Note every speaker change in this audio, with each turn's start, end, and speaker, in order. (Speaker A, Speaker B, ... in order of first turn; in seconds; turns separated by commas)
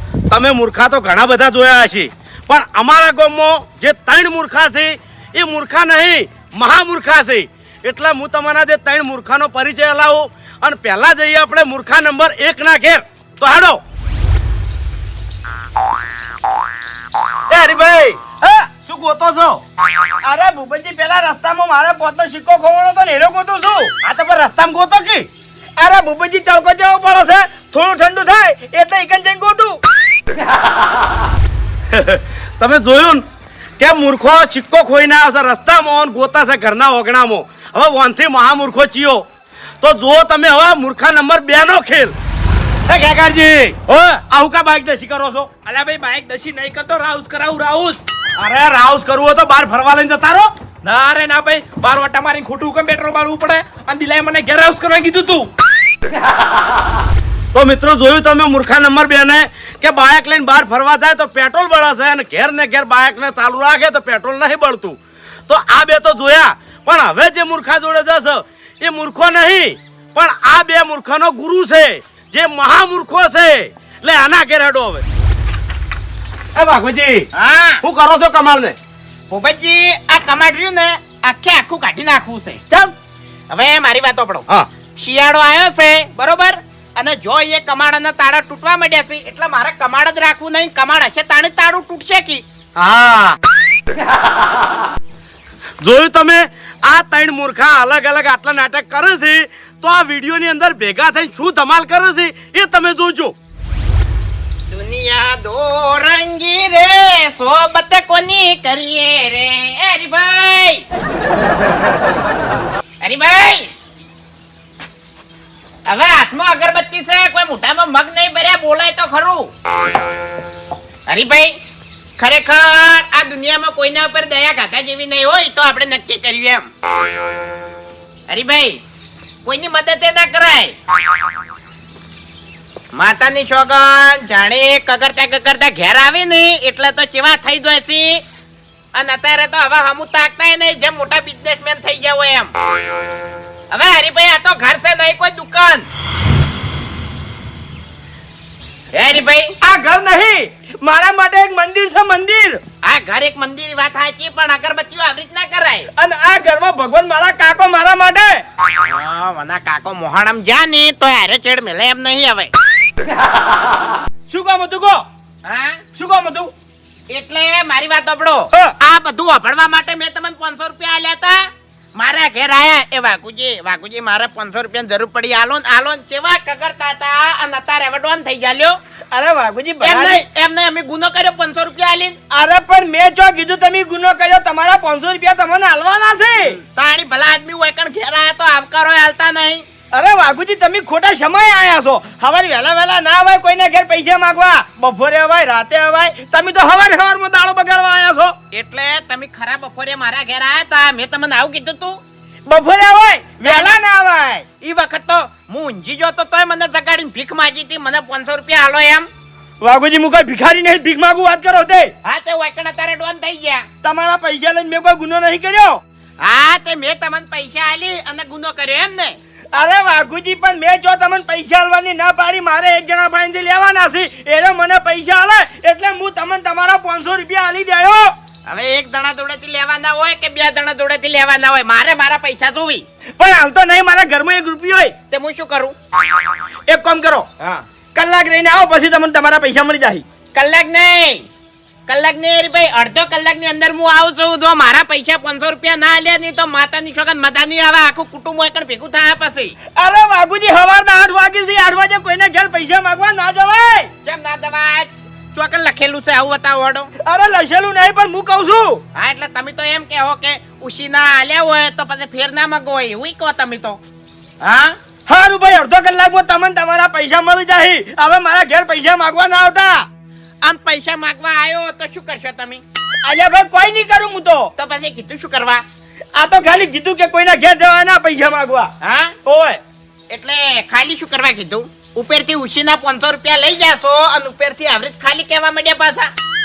Speaker A: 0.3-13.8, Speaker A: 17.5-18.2, Speaker B: 18.4-18.7, Speaker A: 18.8-19.6, Speaker B: 20.2-23.9, Speaker A: 24.0-25.3, Speaker B: 25.8-29.8, Speaker A: 31.9-33.2, Speaker A: 33.8-39.2, Speaker A: 39.8-42.1, Speaker A: 42.9-45.5, Speaker C: 43.9-44.2, Speaker C: 45.7-48.0, Speaker A: 48.4-50.5, Speaker C: 50.8-55.5, Speaker A: 57.5-75.0, Speaker A: 76.5-77.3, Speaker D: 77.3-77.8, Speaker A: 77.8-78.8, Speaker D: 79.3-82.6, Speaker D: 83.5-84.5, Speaker D: 85.0-92.4, Speaker A: 92.8-93.4, Speaker A: 95.8-103.3, Speaker D: 104.7-110.8, Speaker D: 113.0-113.7, Speaker D: 115.9-119.5, Speaker D: 121.1-121.6, Speaker D: 122.2-126.7, Speaker D: 128.3-128.8, Speaker D: 129.4-130.8, Speaker D: 132.9-138.2, Speaker D: 138.9-142.5, Speaker D: 143.7-145.9, Speaker D: 148.9-149.5, Speaker B: 149.6-152.6, Speaker D: 152.8-155.9, Speaker B: 156.0-158.4, Speaker D: 158.8-162.5, Speaker B: 164.3-165.0, Speaker D: 165.4-165.8, Speaker B: 165.9-166.5, Speaker D: 167.1-178.8, Speaker B: 179.1-180.2, Speaker D: 179.8-182.2, Speaker B: 182.3-186.6, Speaker D: 186.5-189.7, Speaker B: 189.9-198.3, Speaker D: 198.5-202.0, Speaker B: 202.5-204.5, Speaker D: 203.4-203.8, Speaker D: 204.6-209.1, Speaker B: 209.6-211.9, Speaker D: 212.0-213.7, Speaker B: 213.8-215.8, Speaker D: 216.2-219.2, Speaker B: 219.5-228.1, Speaker D: 228.5-232.9, Speaker B: 233.2-234.9, Speaker D: 235.1-235.8, Speaker B: 236.7-240.1, Speaker D: 240.3-241.3, Speaker D: 241.9-249.5, Speaker B: 249.8-253.9, Speaker D: 254.0-256.9, Speaker B: 257.0-258.8, Speaker D: 258.9-263.8, Speaker D: 264.4-264.8, Speaker B: 265.1-269.9, Speaker D: 270.4-272.6, Speaker B: 273.1-274.5, Speaker D: 274.6-275.6, Speaker B: 276.2-278.7, Speaker D: 278.8-279.1, Speaker B: 279.2-279.6, Speaker D: 280.1-286.1